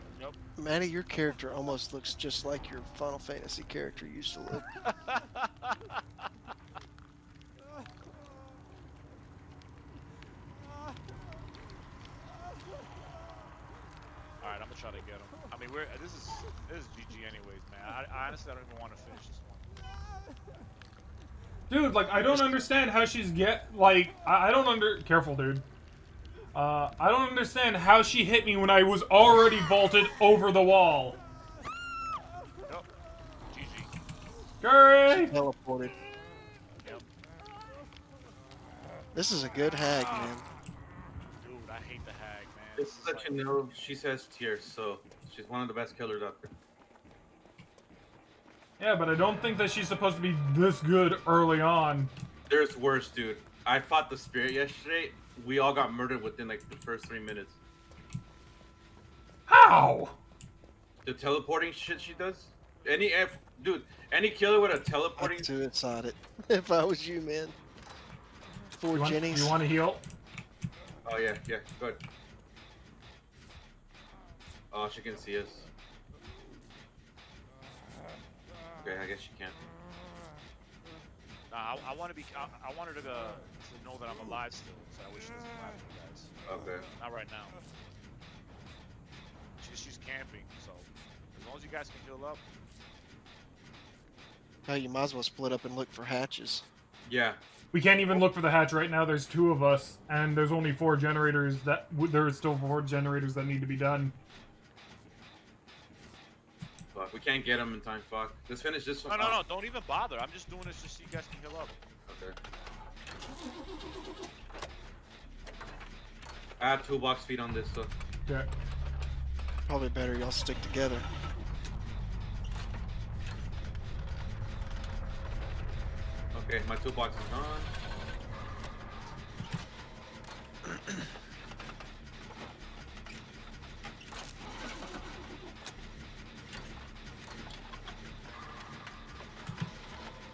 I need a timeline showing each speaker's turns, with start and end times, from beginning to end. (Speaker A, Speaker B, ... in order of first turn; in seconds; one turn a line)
Speaker A: 0.6-4.7
Speaker B: 4.8-6.0
Speaker B: 14.4-19.7
Speaker C: 21.7-25.6
Speaker B: 22.3-22.6
Speaker C: 26.5-31.2
Speaker B: 33.5-33.9
Speaker C: 34.6-35.4
Speaker A: 35.1-36.0
Speaker B: 36.8-37.1
Speaker A: 39.1-40.4
Speaker B: 41.4-43.5
Speaker D: 42.8-46.5
Speaker C: 48.8-52.1
Speaker D: 52.5-57.6
Speaker C: 59.5-60.2
Speaker D: 61.0-65.5
Speaker A: 65.2-67.6
Speaker A: 68.8-69.5
Speaker C: 68.9-70.0
Speaker D: 71.0-72.0
Speaker D: 74.7-75.7
Speaker D: 78.8-79.6
Speaker B: 81.5-86.3
Speaker D: 86.5-86.8
Speaker B: 87.0-87.6
Speaker B: 89.6-92.4
Speaker A: 94.7-96.7
Speaker D: 97.1-97.4
Speaker C: 97.7-104.2
Speaker D: 106.9-109.4
Speaker B: 109.1-111.8
Speaker D: 112.1-112.3
Speaker D: 116.6-117.9
Speaker A: 119.7-121.1
Speaker D: 126.3-127.7